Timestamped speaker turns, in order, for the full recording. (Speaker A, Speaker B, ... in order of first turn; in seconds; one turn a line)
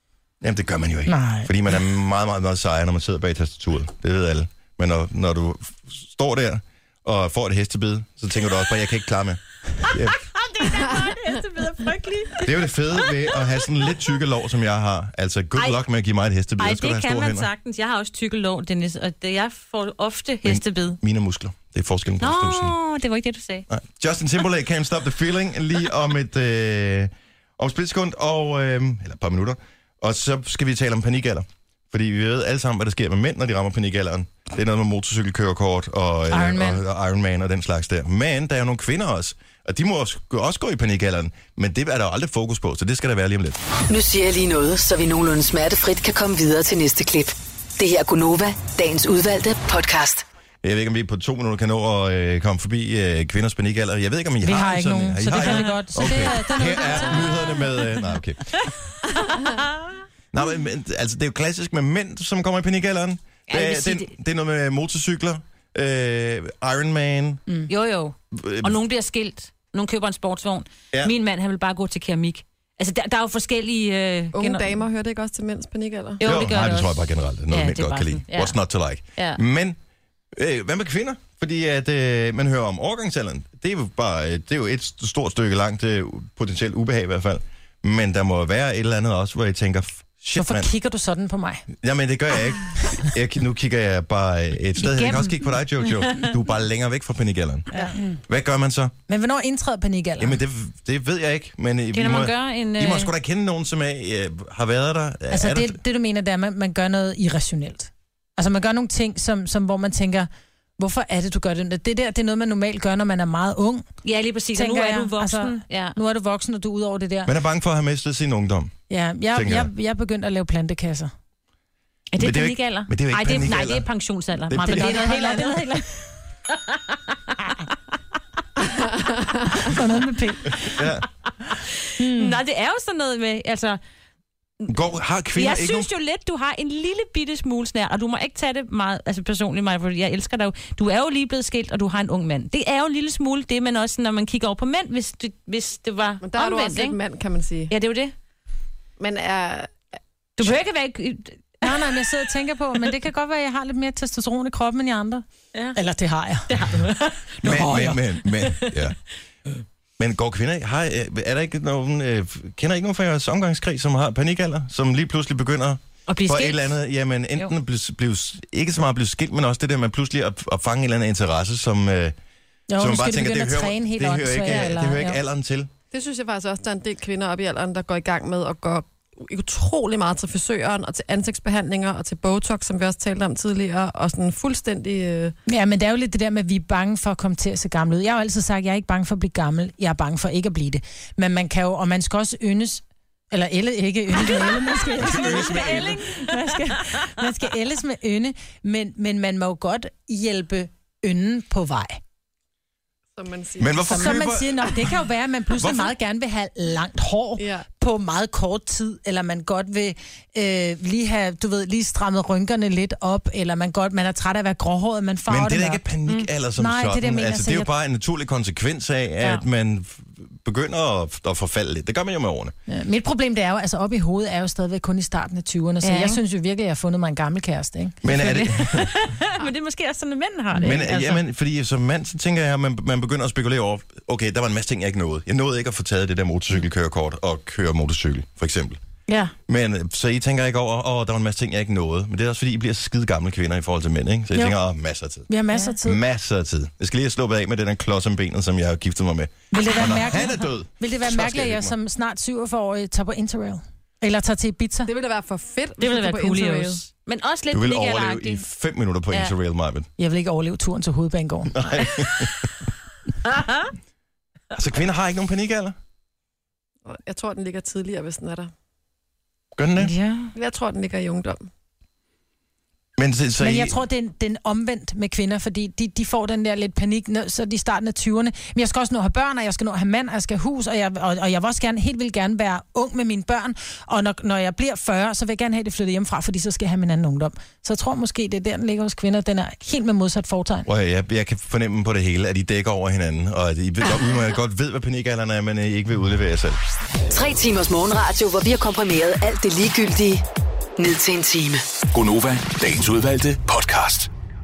Speaker A: 0.4-10.2
Speaker B: 1.1-1.5
Speaker C: 10.3-13.5
Speaker A: 12.4-17.5
Speaker C: 16.6-21.0
Speaker A: 20.4-22.8
Speaker C: 22.2-23.7
Speaker A: 23.7-43.6
Speaker B: 36.3-36.8
Speaker D: 43.9-50.2
Speaker A: 50.6-58.7
Speaker B: 54.4-57.7
Speaker C: 55.4-57.9
Speaker C: 59.3-59.9
Speaker A: 60.3-67.4
Speaker C: 63.5-64.1
Speaker C: 67.7-74.8
Speaker A: 68.3-68.8
Speaker E: 74.3-76.2
Speaker C: 76.2-78.6
Speaker A: 76.2-79.8
Speaker A: 80.3-90.7
Speaker B: 90.3-91.7
Speaker A: 91.7-98.9
Speaker C: 94.8-95.4
Speaker B: 99.1-100.4
Speaker A: 100.2-105.8
Speaker C: 101.9-103.1
Speaker B: 105.3-113.9
Speaker C: 114.0-116.0
Speaker B: 114.5-117.3
Speaker A: 117.3-118.7
Speaker B: 118.9-121.1
Speaker A: 119.3-119.7
Speaker C: 122.1-125.8
Speaker A: 122.2-123.9
Speaker A: 124.5-125.1
Speaker B: 124.6-125.9
Speaker C: 126.5-127.5
Speaker B: 129.5-130.7
Speaker A: 130.6-131.1
Speaker C: 131.6-133.8
Speaker B: 132.0-132.4
Speaker A: 134.7-135.9
Speaker C: 135.3-147.0
Speaker E: 146.2-147.7
Speaker C: 147.7-148.1
Speaker E: 149.0-149.8
Speaker C: 150.4-151.8
Speaker B: 151.6-155.2
Speaker B: 155.8-156.5
Speaker C: 156.5-158.8
Speaker A: 157.4-159.0
Speaker B: 157.5-157.9
Speaker A: 160.0-172.2
Speaker C: 166.1-166.8
Speaker B: 172.7-175.2
Speaker A: 172.8-175.7
Speaker E: 175.9-185.4
Speaker B: 185.5-202.0
Speaker C: 194.2-197.1
Speaker A: 195.0-196.0
Speaker E: 203.2-204.2
Speaker A: 203.6-204.9
Speaker B: 203.9-215.8
Speaker A: 205.6-205.9
Speaker E: 207.4-207.7
Speaker A: 215.3-222.6
Speaker B: 216.6-217.7
Speaker B: 222.7-228.0
Speaker C: 225.8-226.2
Speaker A: 228.0-228.9
Speaker C: 228.1-231.2
Speaker A: 230.6-238.8
Speaker A: 239.5-245.3
Speaker B: 245.3-246.0
Speaker A: 245.8-251.8
Speaker B: 249.5-254.9
Speaker E: 254.9-256.8
Speaker C: 255.8-258.4
Speaker A: 257.5-259.9
Speaker B: 260.0-261.9
Speaker A: 261.5-262.5
Speaker C: 263.3-263.7
Speaker A: 264.5-265.8
Speaker E: 266.9-268.5
Speaker A: 269.6-269.9
Speaker C: 269.8-270.3
Speaker E: 270.4-271.5
Speaker A: 273.0-273.8
Speaker B: 273.4-290.7
Speaker A: 290.7-296.6
Speaker D: 297.1-300.2
Speaker D: 300.8-301.6
Speaker F: 301.9-304.1